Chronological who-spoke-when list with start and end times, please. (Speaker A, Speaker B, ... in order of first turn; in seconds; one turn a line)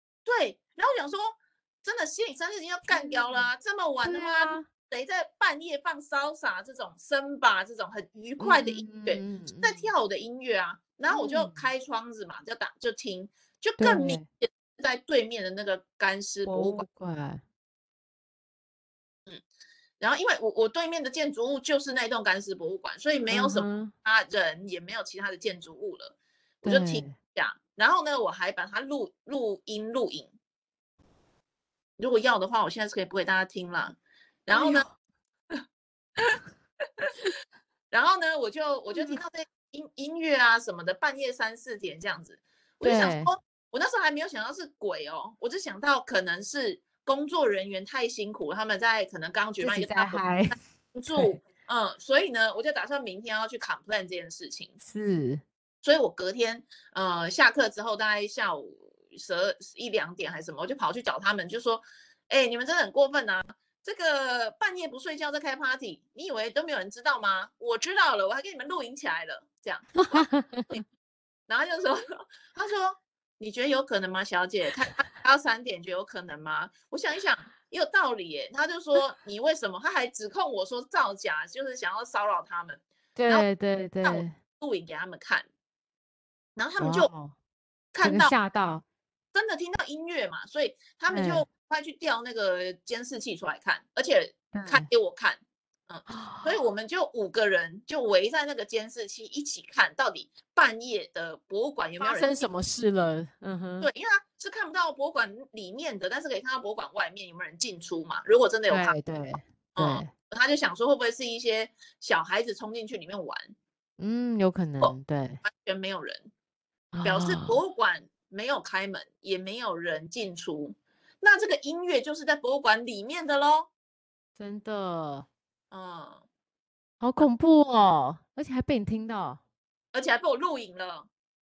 Speaker A: 0.3-16.9
Speaker B: 2.9-4.7
Speaker B: 8.4-9.9
Speaker B: 11.1-11.7
Speaker B: 13.8-14.3
Speaker B: 16.5-17.4
Speaker A: 20.0-30.3
Speaker B: 23.3-23.9
Speaker B: 26.6-27.2
Speaker A: 32.0-34.9
Speaker B: 34.5-34.9
Speaker A: 37.9-54.8
Speaker B: 38.9-39.2
Speaker B: 42.8-43.3
Speaker B: 49.6-50.6
Speaker B: 51.1-51.4
Speaker B: 54.8-55.4
Speaker A: 55.8-70.8
Speaker B: 70.0-70.7
Speaker A: 71.5-83.5
Speaker B: 83.2-84.3
Speaker A: 84.0-85.5
Speaker A: 86.6-87.1
Speaker B: 86.8-87.3
Speaker A: 87.9-88.3
Speaker B: 88.0-88.8
Speaker A: 89.3-102.5
Speaker B: 91.1-91.5
Speaker B: 94.5-94.9
Speaker B: 96.1-96.5
Speaker B: 102.0-103.9
Speaker A: 103.8-109.0
Speaker B: 108.7-110.1
Speaker A: 109.8-113.5
Speaker B: 114.0-115.4
Speaker A: 114.8-116.3
Speaker B: 116.9-117.6
Speaker A: 117.0-123.7
Speaker B: 124.4-125.3
Speaker A: 125.7-126.2
Speaker B: 127.0-129.4
Speaker A: 129.9-131.1